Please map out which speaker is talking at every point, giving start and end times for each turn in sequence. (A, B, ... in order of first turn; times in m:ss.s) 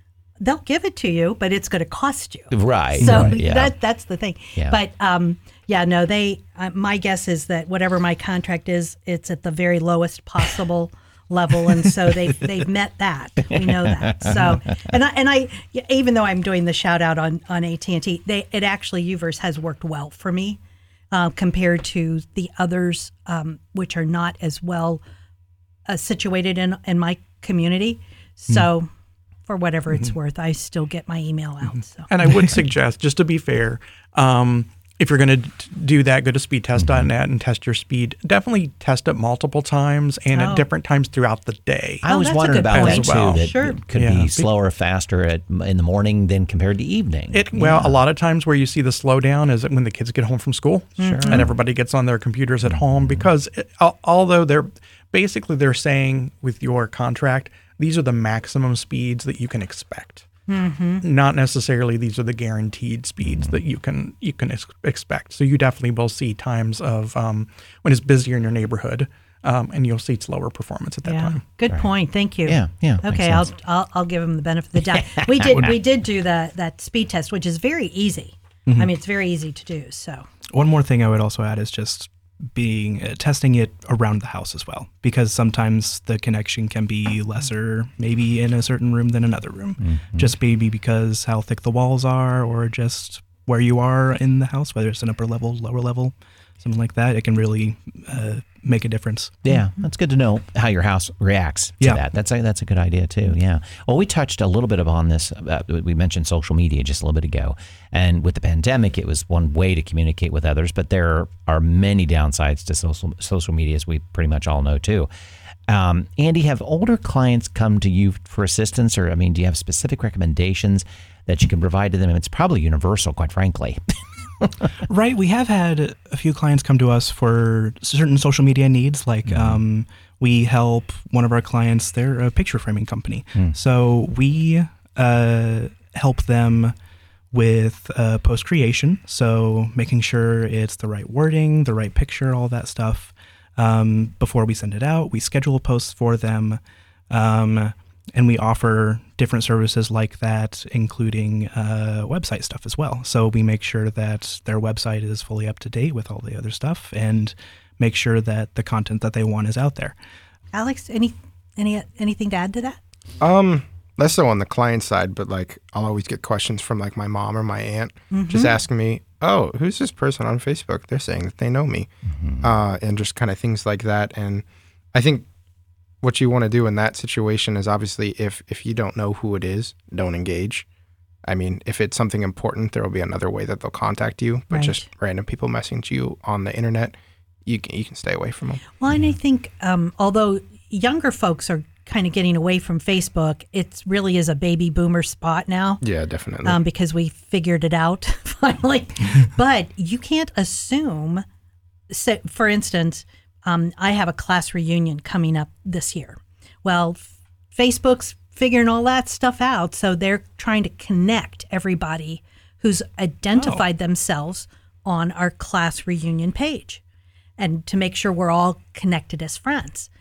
0:00.4-0:20.6 A
0:02.5-0:03.7 B
0:03.0-0:03.4 C
0:13.5-0:14.9 B
0:21.1-0:25.0 A
0:25.9-0:28.9 A
0:29.4-0:32.1 A
0:32.1-0:42.0 D
0:36.8-0:37.1 B
0:40.3-0:40.6 A
0:42.0-0:48.0 B
0:42.0-0:43.8 A
0:42.6-0:44.5 D
0:47.3-1:00.3 D
0:51.0-0:51.5 A
0:51.0-0:51.5 B
0:52.9-0:53.2 B
1:00.5-1:01.0 A
1:01.0-1:11.4 D
1:03.3-1:03.5 B
1:11.0-1:20.3 A
1:12.4-1:13.5 B
1:15.2-1:15.6 B
1:20.5-1:39.4 C
1:29.8-1:30.3 B
1:39.4-1:55.1 B
1:55.7-2:04.7 B
2:04.9-2:16.7 C
2:09.3-2:09.6 B
2:17.3-2:40.0 C
2:40.5-2:42.8 A
2:43.2-2:51.9 E
2:48.1-2:48.5 A
2:52.1-2:52.5 B
2:52.4-2:55.2 E
2:56.0-3:00.6 E
3:01.2-3:08.6 E
3:04.5-3:04.8 A
3:08.8-3:15.8 A
3:15.8-3:16.6 E
3:16.4-3:21.2 A
3:21.9-3:36.8 A
3:33.4-3:33.6 C
3:37.4-3:39.9 A